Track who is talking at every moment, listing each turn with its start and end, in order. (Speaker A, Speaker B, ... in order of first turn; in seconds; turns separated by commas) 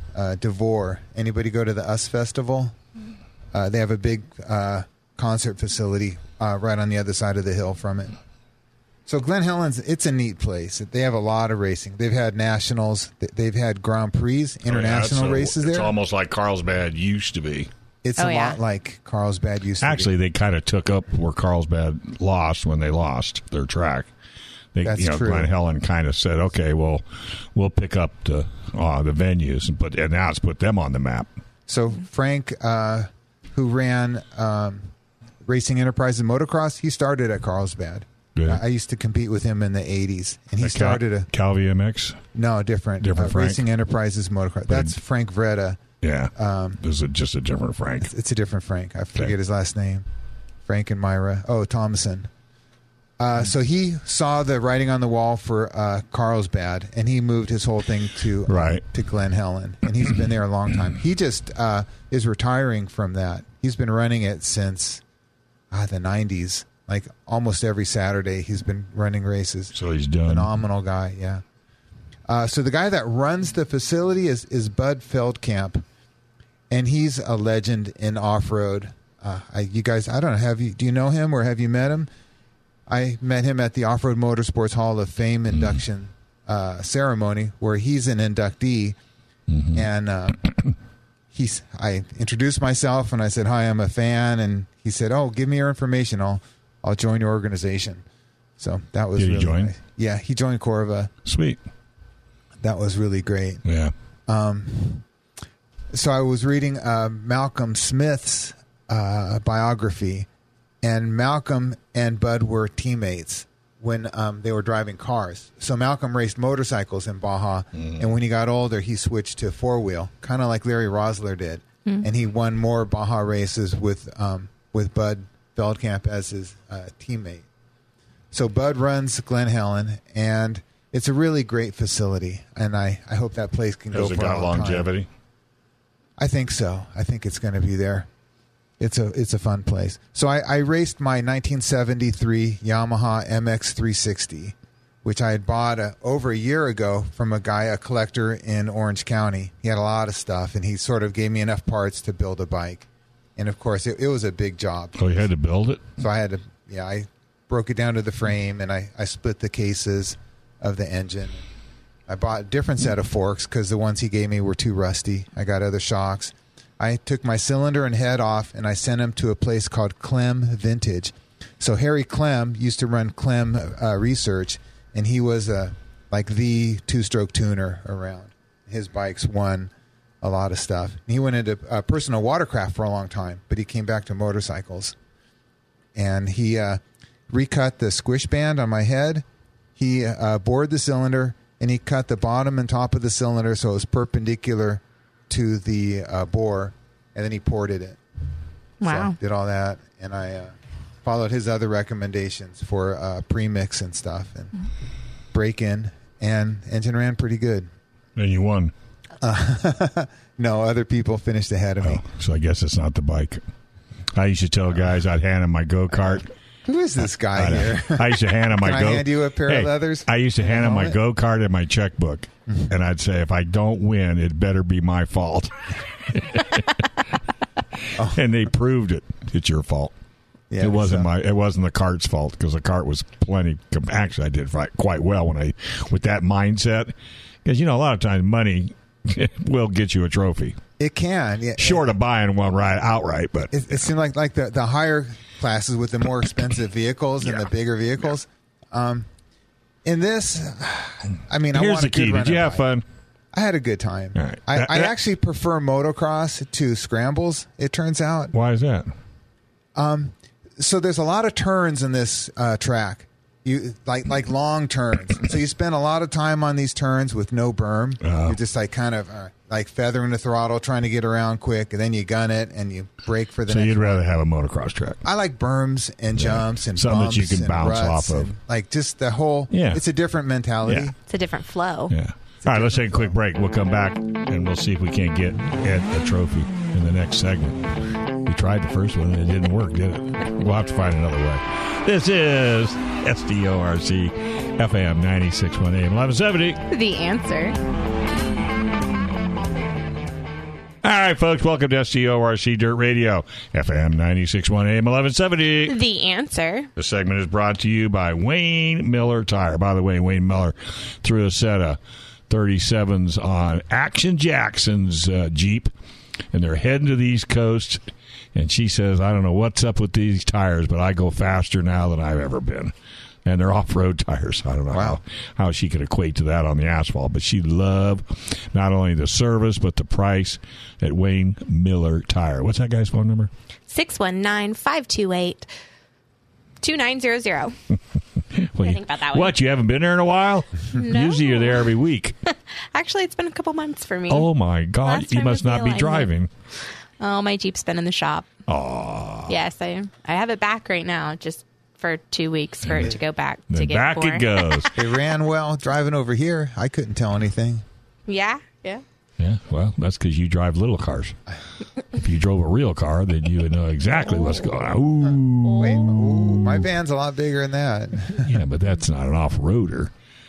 Speaker A: 0.1-2.7, Speaker A: 3.5-8.1, Speaker A: 9.1-15.9, Speaker B: 14.7-17.7, Speaker A: 18.0-20.1, Speaker C: 18.2-18.6, Speaker B: 19.8-24.1, Speaker B: 24.7-27.0, Speaker A: 24.8-25.5, Speaker B: 27.5-31.3, Speaker A: 31.7-34.9, Speaker A: 35.4-41.3, Speaker B: 38.4-38.6, Speaker B: 40.6-42.2, Speaker A: 42.3-45.8, Speaker B: 43.0-43.6, Speaker B: 46.0-48.1, Speaker A: 46.3-46.8, Speaker A: 48.0-50.0, Speaker A: 50.6-52.3, Speaker A: 53.2-65.0, Speaker B: 58.5-58.8, Speaker A: 65.7-69.7, Speaker B: 69.7-70.5, Speaker A: 70.2-71.4, Speaker A: 72.3-75.8, Speaker A: 76.7-82.1, Speaker A: 82.9-89.0, Speaker B: 89.5-89.9, Speaker A: 89.7-90.4, Speaker A: 91.3-98.0, Speaker A: 98.6-101.1, Speaker B: 99.2-99.7, Speaker B: 101.2-101.6, Speaker A: 102.6-103.6, Speaker B: 103.6-103.9, Speaker A: 104.3-105.0, Speaker A: 105.9-110.3, Speaker A: 110.8-127.4, Speaker A: 128.3-134.9, Speaker B: 133.9-135.1, Speaker A: 136.2-138.1, Speaker A: 138.8-155.1, Speaker B: 155.0-155.9, Speaker A: 156.0-161.4, Speaker A: 162.1-184.9, Speaker A: 185.9-189.2, Speaker A: 189.8-198.0, Speaker C: 198.8-199.1, Speaker A: 198.8-204.5, Speaker A: 205.3-207.7, Speaker B: 208.2-208.7, Speaker A: 209.2-212.0, Speaker B: 211.8-213.4, Speaker B: 214.1-216.3, Speaker A: 216.0-221.0, Speaker B: 217.3-225.5, Speaker B: 226.1-226.8, Speaker B: 228.0-229.9, Speaker A: 230.5-231.1, Speaker B: 230.6-236.9, Speaker B: 237.4-240.6, Speaker A: 240.8-241.9, Speaker B: 241.6-243.5, Speaker A: 243.5-249.1, Speaker A: 249.8-252.6, Speaker B: 251.5-252.8, Speaker A: 253.3-258.3, Speaker B: 254.1-254.9, Speaker B: 258.3-258.9, Speaker A: 259.8-274.1, Speaker B: 268.0-268.4, Speaker B: 273.5-275.0, Speaker A: 275.0-280.9, Speaker B: 276.1-278.3, Speaker B: 279.5-279.8, Speaker B: 280.6-280.9, Speaker C: 281.1-281.9, Speaker B: 281.9-287.6, Speaker A: 282.4-283.1, Speaker B: 288.2-296.6, Speaker C: 296.7-297.6, Speaker B: 300.8-305.8, Speaker C: 305.7-306.7, Speaker B: 306.8-311.8, Speaker B: 312.3-315.7, Speaker B: 316.3-317.8, Speaker B: 318.3-322.7, Speaker B: 323.2-333.3, Speaker A: 324.7-325.0, Speaker C: 333.7-335.5, Speaker C: 336.6-337.5, Speaker B: 338.3-342.1, Speaker C: 338.6-339.3, Speaker C: 340.7-341.7, Speaker C: 342.3-344.3, Speaker B: 344.1-346.3, Speaker C: 344.8-346.1, Speaker C: 347.0-348.2, Speaker B: 348.5-349.4, Speaker C: 349.3-354.7, Speaker B: 353.5-354.7, Speaker A: 354.7-357.6, Speaker C: 358.1-358.8, Speaker B: 359.2-361.2, Speaker B: 361.9-366.6, Speaker C: 365.4-365.8, Speaker A: 365.5-368.4, Speaker B: 368.2-369.9